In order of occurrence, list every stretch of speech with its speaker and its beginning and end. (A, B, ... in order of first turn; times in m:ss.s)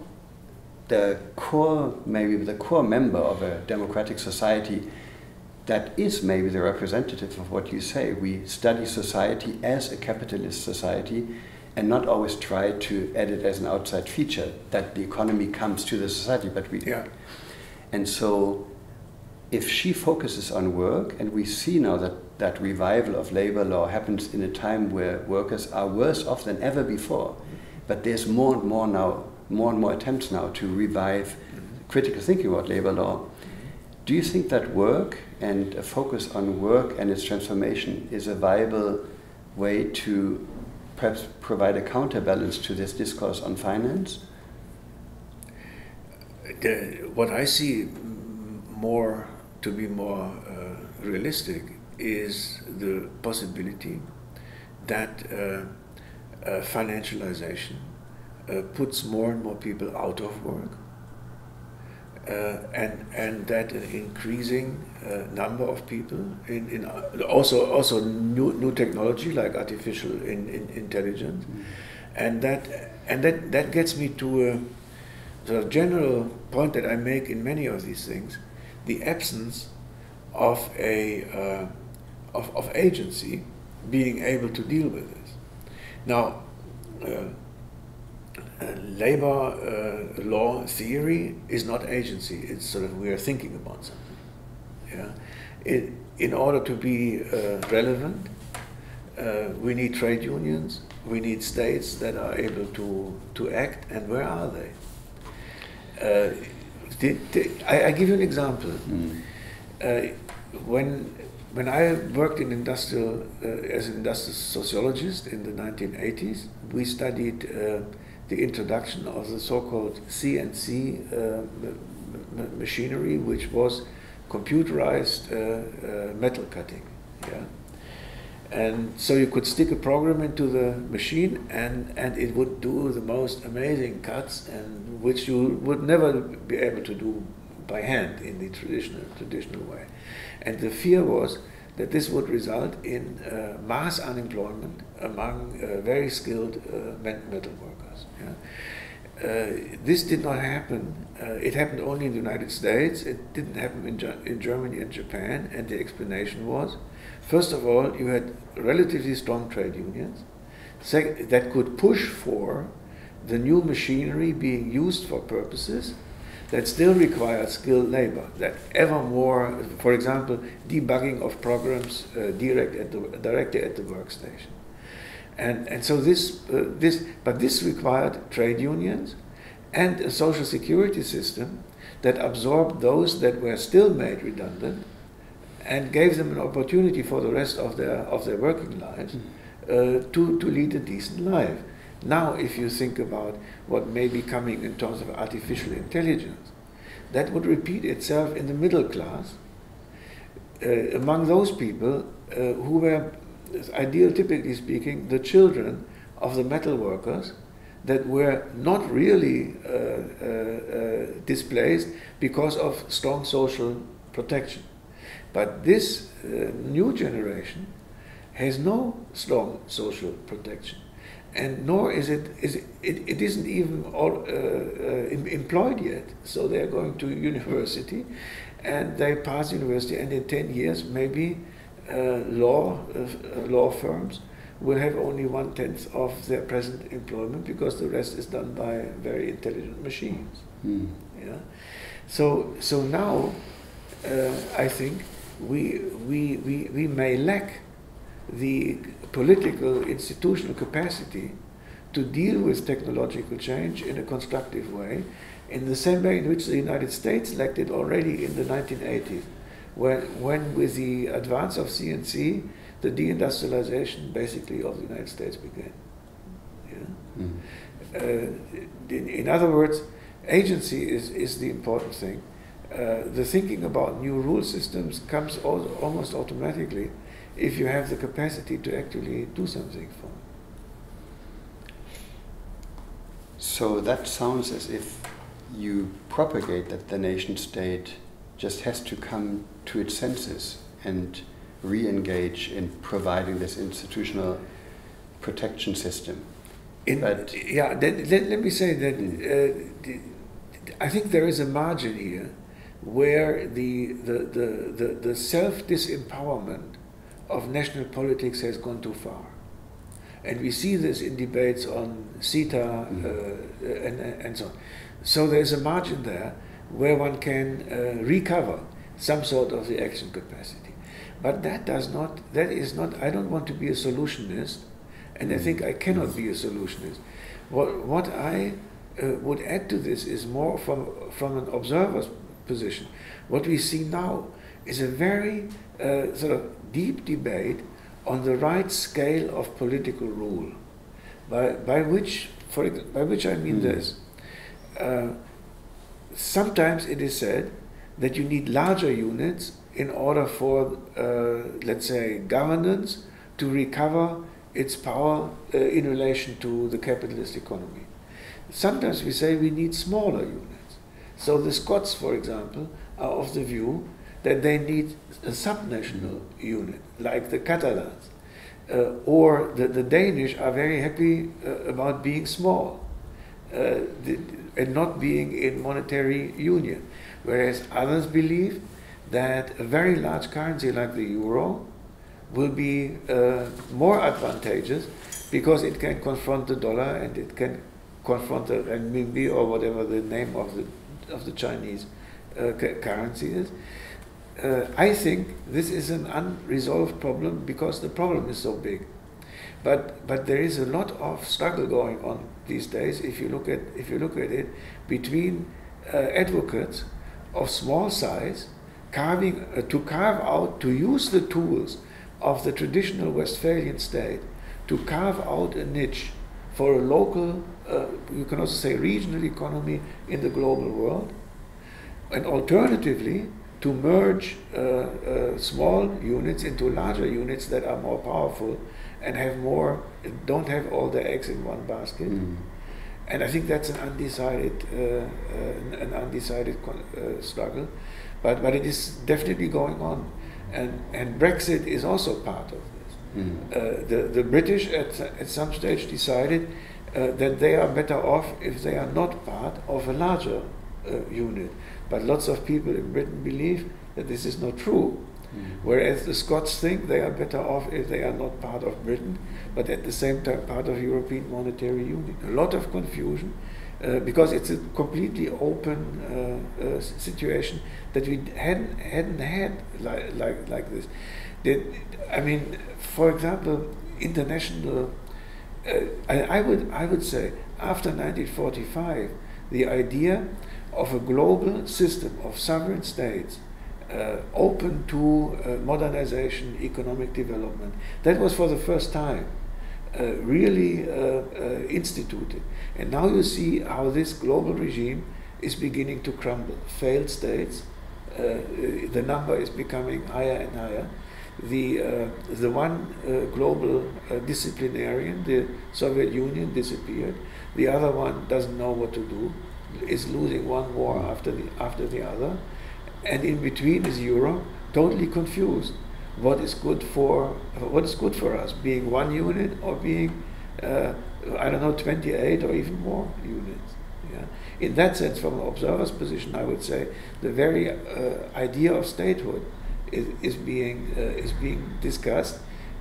0:00.9-0:04.9 A
0:05.6-0:17.1 A
0:17.9-0:18.7 A
0:19.5-0:33.3 A
0:34.0-0:44.2 A
0:46.5-0:54.1 B
0:54.8-0:55.7 B
0:56.4-0:57.9 B
0:58.5-1:00.8 B
1:02.2-1:14.7 B
1:15.4-1:19.7 B
1:20.3-1:21.7 B
1:22.3-1:25.4 B
1:26.1-1:27.4 B
1:28.6-1:34.2 B
1:34.9-1:38.3 B
1:39.2-1:44.7 B
1:46.0-1:49.0 B
1:48.9-1:49.2 A
1:49.8-2:07.5 B
2:08.5-2:19.9 B
2:20.4-2:28.4 B
2:29.2-2:40.2 B
2:40.8-2:46.0 B
2:46.5-2:54.6 B
2:55.4-2:59.2 B
2:59.7-3:04.9 B
3:05.6-3:16.5 B
3:17.1-3:19.4 B
3:20.6-3:34.7 B
3:35.3-3:37.7 B
3:38.3-3:48.1 B
3:48.6-4:00.4 B
4:00.6-4:01.0 A
4:01.1-4:03.4 B
4:04.0-4:07.6 B
4:08.3-4:11.4 B
4:11.9-4:25.8 B
4:26.6-4:27.0 B
4:27.2-4:27.4 A
4:27.9-4:40.2 B
4:43.4-4:54.4 A
4:55.2-4:56.3 A
4:56.9-5:09.4 B
4:57.0-4:57.4 A
5:10.2-5:40.6 B
5:25.3-5:25.6 A
5:41.3-5:44.0 B
5:43.5-5:43.8 A
5:44.7-5:45.2 B
5:46.1-5:57.9 B
5:58.5-6:08.1 B
6:08.7-6:12.8 B
6:13.5-6:21.7 B
6:22.3-6:33.5 B
6:34.4-6:38.9 B
6:39.6-7:01.1 B
7:02.1-7:12.2 B
7:12.1-7:12.5 A
7:13.1-7:50.9 B
7:23.1-7:23.4 A
7:35.3-7:35.6 A
7:51.4-7:54.9 B
7:55.6-8:09.3 B
8:09.9-8:32.4 B
8:33.0-8:52.4 B